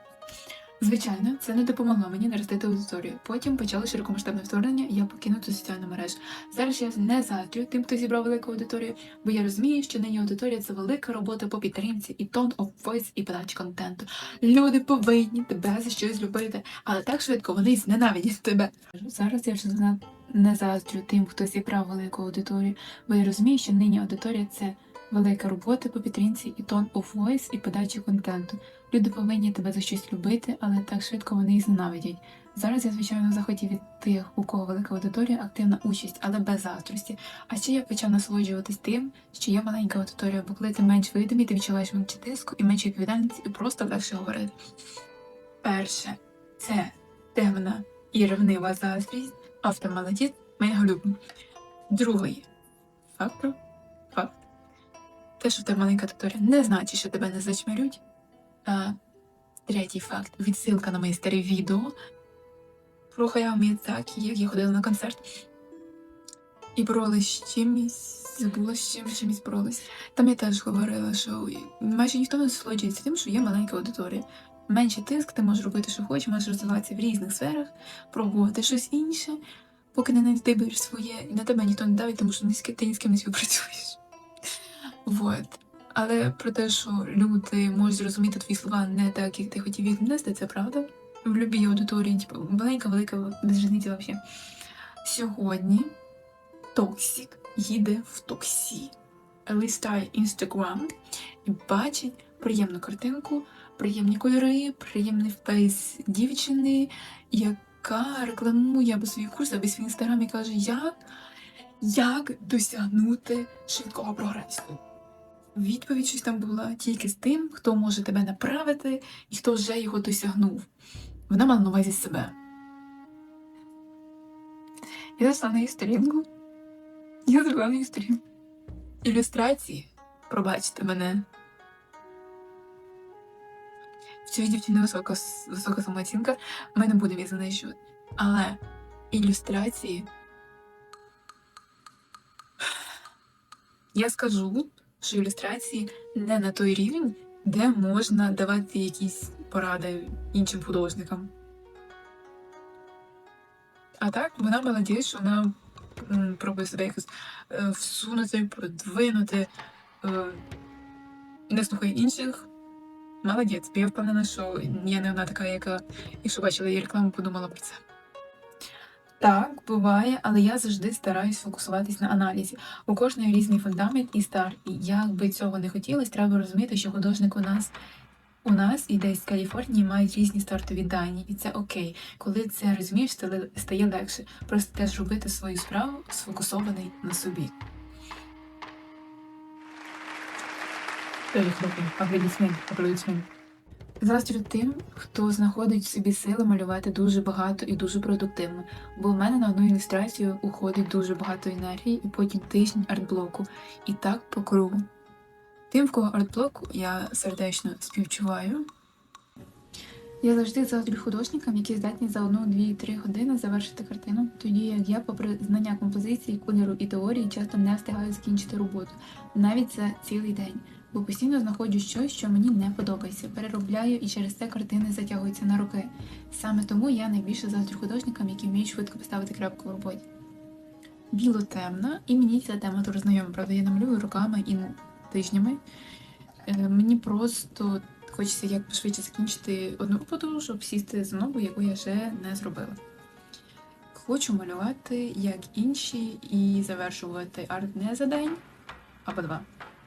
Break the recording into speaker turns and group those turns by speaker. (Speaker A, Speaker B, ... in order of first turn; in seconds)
Speaker A: 0.8-44.6, 45.6-51.2, 51.9-52.5, 53.1-53.6, 54.1-54.4, 55.4-58.0, 58.6-59.0, 59.7-61.9, 63.1-65.4, 66.8-79.4, 79.9-84.0, 85.1-94.2, 95.0-95.9, 96.7-99.0, 99.5-100.9, 101.5-111.0, 111.8-114.8, 115.5-120.7, 121.3-122.4, 125.2-126.3, 127.3-128.2, 129.0-131.3, 134.2-140.1, 143.9-151.3, 154.0-159.5, 160.0-160.4, 161.5-162.5, 163.2-167.8, 169.2-177.7, 178.4-187.6, 191.3-193.3, 194.0-204.9, 205.7-208.7, 210.2-230.1, 231.1-235.6, 236.5-242.8, 243.9-248.4, 249.1-249.5